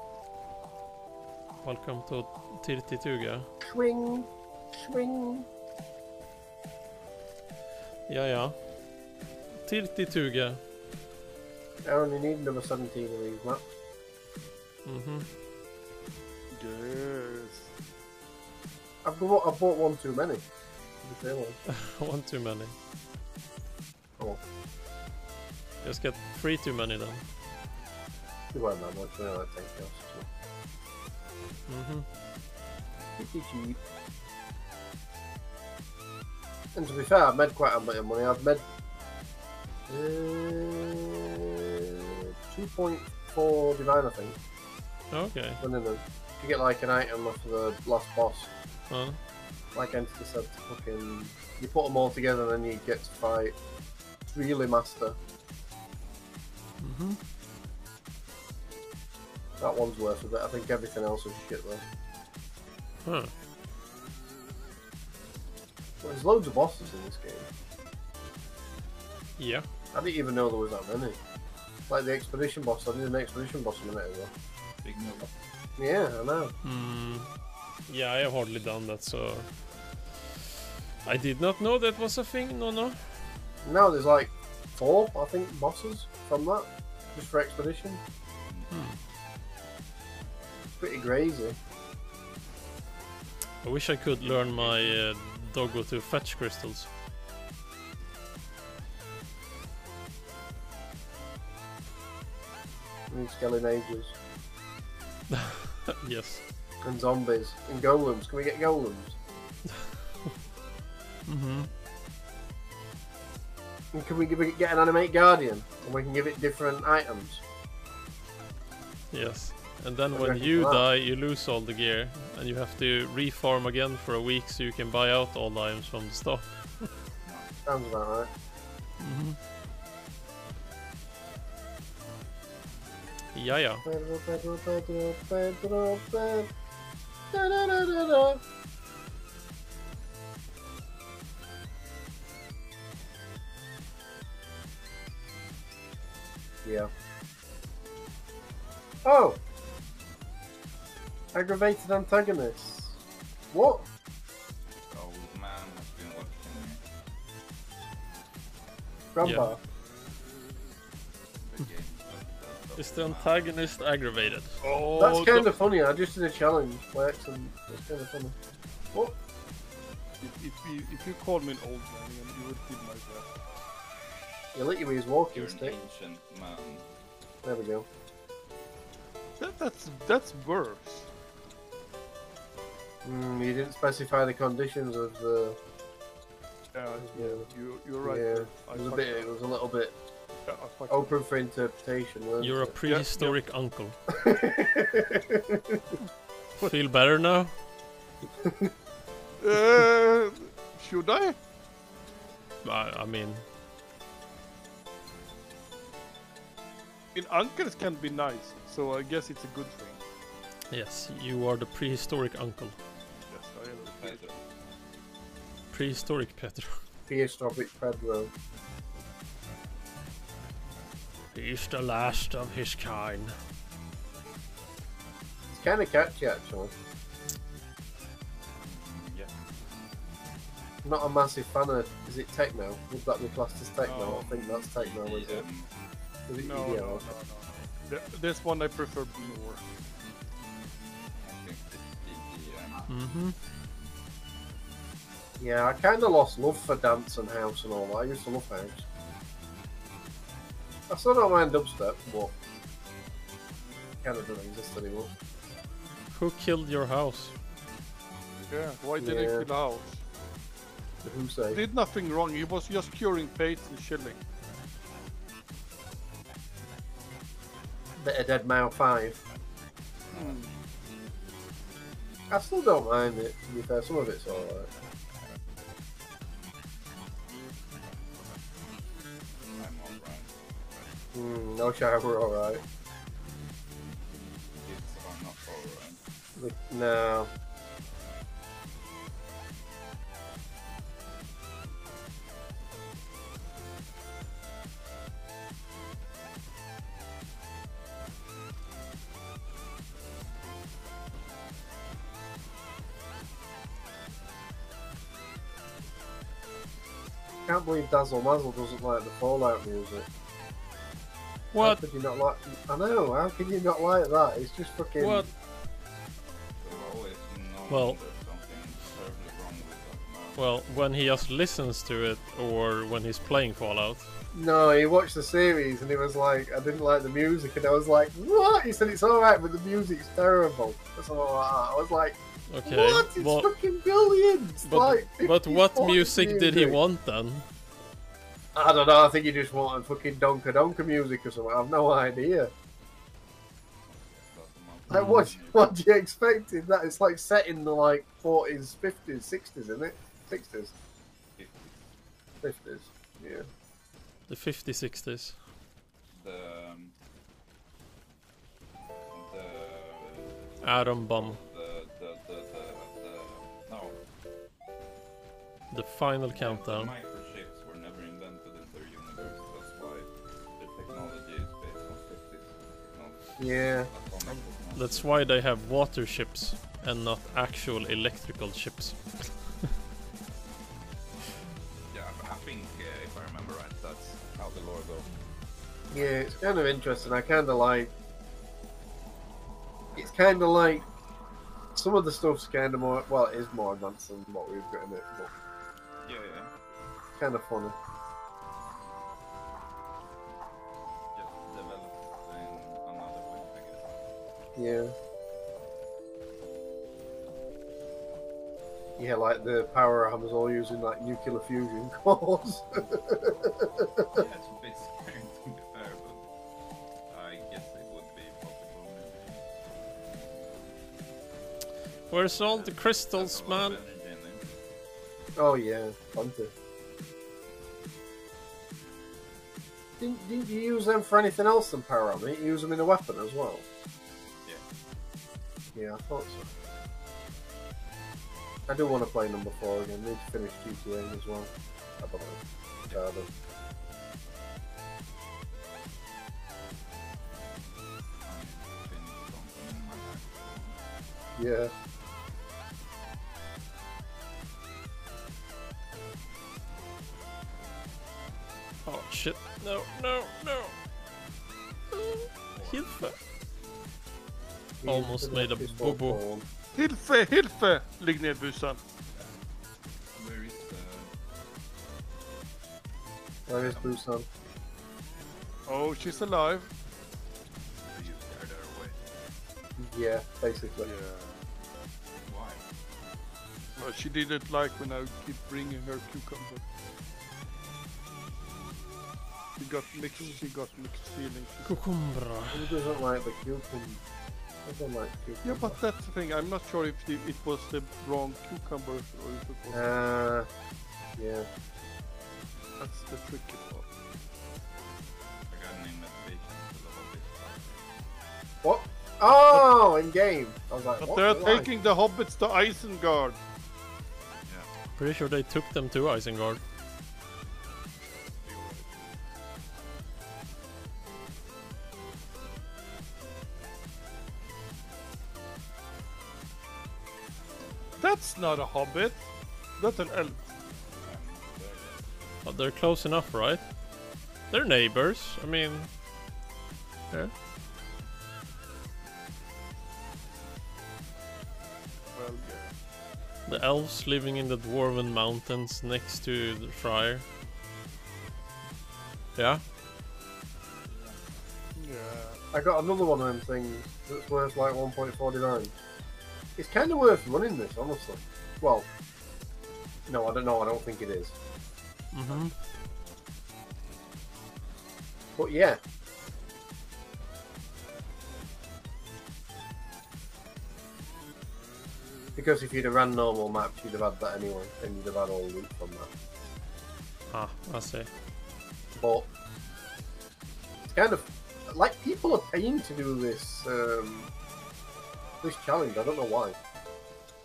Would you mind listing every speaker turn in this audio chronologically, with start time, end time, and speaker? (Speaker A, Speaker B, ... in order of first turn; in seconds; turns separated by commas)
Speaker A: 1.6-3.5, Speaker B: 3.6-5.5, Speaker A: 8.1-8.7, Speaker A: 9.6-10.6, Speaker B: 11.8-13.6, Speaker A: 14.8-15.3, Speaker C: 16.5-17.7, Speaker B: 19.0-20.4, Speaker B: 21.0-21.6, Speaker A: 21.7-22.7, Speaker A: 25.8-27.2, Speaker B: 28.5-30.3, Speaker A: 31.7-32.1, Speaker B: 33.2-33.8, Speaker B: 36.7-38.6, Speaker B: 39.9-44.4, Speaker A: 45.1-45.6, Speaker B: 45.6-48.5, Speaker A: 48.9-49.2, Speaker B: 49.7-53.6, Speaker B: 54.3-55.2, Speaker A: 56.8-57.2, Speaker B: 59.6-61.8, Speaker A: 63.0-63.3, Speaker B: 66.0-67.5, Speaker A: 69.4-69.7, Speaker B: 69.9-71.2, Speaker B: 71.9-74.3, Speaker D: 74.8-75.3, Speaker B: 75.8-76.5, Speaker A: 76.6-77.3, Speaker A: 77.9-80.3, Speaker A: 81.0-83.2, Speaker B: 83.6-88.0, Speaker D: 88.5-88.8, Speaker A: 88.7-89.0, Speaker B: 90.8-91.6, Speaker A: 93.6-96.9, Speaker D: 94.3-94.7, Speaker B: 103.1-104.1, Speaker A: 105.3-106.4, Speaker B: 106.8-109.2, Speaker A: 111.3-111.7, Speaker B: 113.9-117.4, Speaker A: 119.1-126.9, Speaker B: 120.1-120.8, Speaker D: 127.2-127.5, Speaker B: 127.7-128.3, Speaker A: 129.0-129.4, Speaker A: 133.3-133.8, Speaker B: 133.8-136.5, Speaker B: 137.3-138.4, Speaker B: 146.6-146.9, Speaker B: 149.0-149.4, Speaker B: 151.3-153.0, Speaker B: 153.5-153.9, Speaker D: 154.9-156.8, Speaker B: 159.1-159.6, Speaker A: 159.2-159.5, Speaker D: 161.4-163.5, Speaker A: 162.8-164.6, Speaker C: 164.6-165.5, Speaker B: 165.0-168.4, Speaker C: 170.2-173.3, Speaker B: 174.5-175.8, Speaker D: 175.3-176.9, Speaker B: 177.4-177.9, Speaker C: 179.4-181.1, Speaker B: 183.0-185.6, Speaker C: 186.7-189.3, Speaker B: 187.1-187.5, Speaker B: 188.0-189.9, Speaker C: 190.5-191.2, Speaker B: 190.9-192.8, Speaker A: 192.4-194.0, Speaker C: 192.9-193.4, Speaker B: 194.1-196.0, Speaker A: 196.6-197.5, Speaker B: 198.4-198.7, Speaker C: 199.4-201.4, Speaker A: 202.6-203.4, Speaker C: 207.1-210.0, Speaker A: 210.7-212.8, Speaker C: 213.3-214.3, Speaker D: 213.9-214.4, Speaker A: 215.7-216.8, Speaker B: 217.1-218.3, Speaker A: 221.3-223.4, Speaker B: 225.5-226.7, Speaker D: 228.6-229.5, Speaker B: 230.8-235.5, Speaker C: 233.8-234.2, Speaker D: 234.0-235.7, Speaker B: 236.3-237.0, Speaker C: 236.4-239.6, Speaker D: 241.2-242.9, Speaker A: 242.9-243.4, Speaker B: 245.4-248.8, Speaker B: 250.9-252.3, Speaker B: 254.0-255.1, Speaker A: 256.1-257.4, Speaker C: 258.5-260.0, Speaker B: 259.0-259.5, Speaker B: 261.0-261.6, Speaker C: 261.5-264.2, Speaker B: 268.0-269.2, Speaker D: 270.1-270.4, Speaker C: 270.1-270.5, Speaker B: 272.3-274.7, Speaker D: 279.6-280.3, Speaker B: 281.1-282.6, Speaker D: 284.6-286.0, Speaker B: 286.4-287.3, Speaker B: 307.4-310.1, Speaker A: 311.5-311.8, Speaker B: 311.6-315.3, Speaker A: 315.0-315.3, Speaker D: 316.6-320.6, Speaker A: 317.7-318.0, Speaker A: 320.4-324.1, Speaker B: 324.3-336.8, Speaker A: 332.5-333.5, Speaker A: 334.6-337.5, Speaker B: 338.5-342.5, Speaker D: 343.9-345.7, Speaker B: 344.9-350.7, Speaker A: 344.9-345.3, Speaker D: 351.4-351.8, Speaker B: 352.4-353.5, Speaker A: 354.3-355.4, Speaker D: 356.1-356.9, Speaker D: 359.1-364.0, Speaker A: 360.6-361.4, Speaker A: 365.7-366.9, Speaker D: 366.3-375.3, Speaker B: 373.4-373.9, Speaker A: 374.7-379.6, Speaker D: 381.9-385.1, Speaker D: 385.9-387.3, Speaker B: 385.9-387.9, Speaker D: 389.9-391.1, Speaker B: 389.9-390.8, Speaker B: 391.8-395.3, Speaker D: 396.0-396.5, Speaker B: 397.2-397.8, Speaker D: 401.1-403.9, Speaker B: 404.6-404.9, Speaker B: 409.0-414.2, Speaker D: 414.1-416.3, Speaker D: 417.1-419.5, Speaker A: 422.1-423.8, Speaker D: 422.4-424.5, Speaker B: 425.4-426.5, Speaker B: 430.0-433.6, Speaker B: 435.8-436.5, Speaker B: 438.7-443.3, Speaker D: 448.3-450.8, Speaker B: 451.4-451.7, Speaker A: 458.9-460.8, Speaker A: 461.9-463.2, Speaker D: 462.5-462.9, Speaker B: 464.8-466.5, Speaker A: 464.9-466.2, Speaker C: 466.8-468.8, Speaker D: 470.1-471.1, Speaker B: 473.5-474.3, Speaker D: 473.5-474.0, Speaker C: 475.7-476.7, Speaker D: 477.9-479.0, Speaker B: 479.8-480.9, Speaker C: 480.8-481.4, Speaker D: 482.2-482.6, Speaker C: 483.8-486.6, Speaker C: 489.6-491.9, Speaker A: 491.7-492.8, Speaker B: 492.5-494.0, Speaker B: 494.6-495.8, Speaker C: 495.4-500.0, Speaker B: 499.7-500.5, Speaker B: 501.2-501.5, Speaker C: 502.8-503.9, Speaker D: 505.5-507.9, Speaker B: 508.6-511.7, Speaker C: 511.0-513.4, Speaker D: 514.5-514.7, Speaker A: 515.0-516.6, Speaker C: 518.5-518.9, Speaker C: 528.0-529.3, Speaker C: 529.8-530.5, Speaker D: 531.0-532.0, Speaker A: 532.4-533.7, Speaker A: 534.5-535.9, Speaker C: 542.1-542.7, Speaker A: 543.5-547.2, Speaker A: 549.4-549.6, Speaker D: 550.9-551.2, Speaker C: 551.8-552.4, Speaker B: 552.5-555.7, Speaker B: 556.6-558.9, Speaker B: 560.1-561.3, Speaker A: 562.1-562.5, Speaker B: 565.4-565.8, Speaker B: 572.4-576.1, Speaker A: 577.3-578.1, Speaker B: 578.9-579.3, Speaker B: 580.9-584.3, Speaker B: 585.4-586.6